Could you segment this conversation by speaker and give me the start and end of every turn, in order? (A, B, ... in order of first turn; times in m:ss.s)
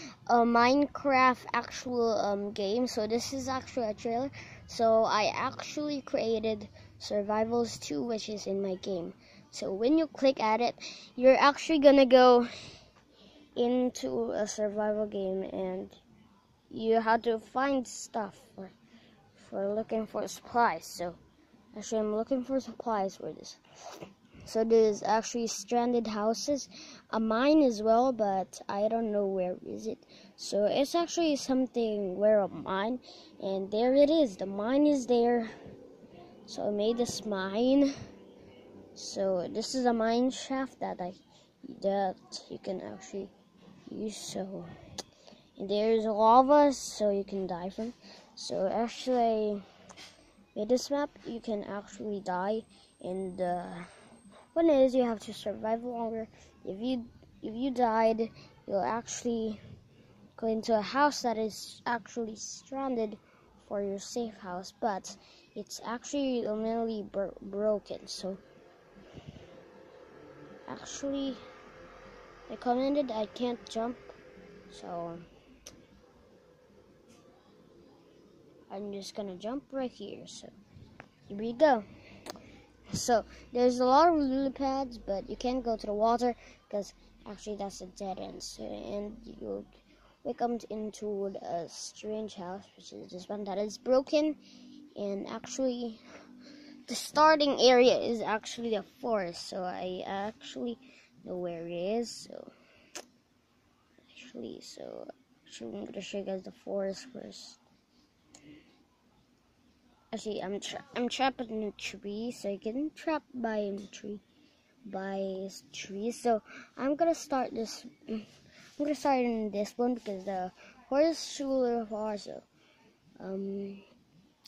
0:00.2-0:12.5 A
0:13.6-0:16.0 A
0:16.7-0:18.7 A
0:19.3-0:21.2 A
0:21.7-0:23.6 A
0:24.4-0:35.5 A
0:36.4-0:37.9 A
0:38.9-0:43.3 A
0:43.8-0:44.7 A
0:45.6-0:49.6 A
0:50.5-0:53.9 A
0:54.5-0:59.6 A
1:00.4-1:08.4 A
1:10.7-1:11.4 A
1:12.5-1:14.2 A
1:14.7-1:15.2 A
1:18.7-1:20.5 A
1:21.3-1:21.8 A
1:22.9-1:29.7 A
1:30.2-1:34.4 A
1:35.0-1:36.0 A
1:36.8-1:42.5 A
1:44.0-1:47.6 A
1:50.1-1:54.2 A
1:54.8-2:02.4 A
2:03.2-2:03.8 A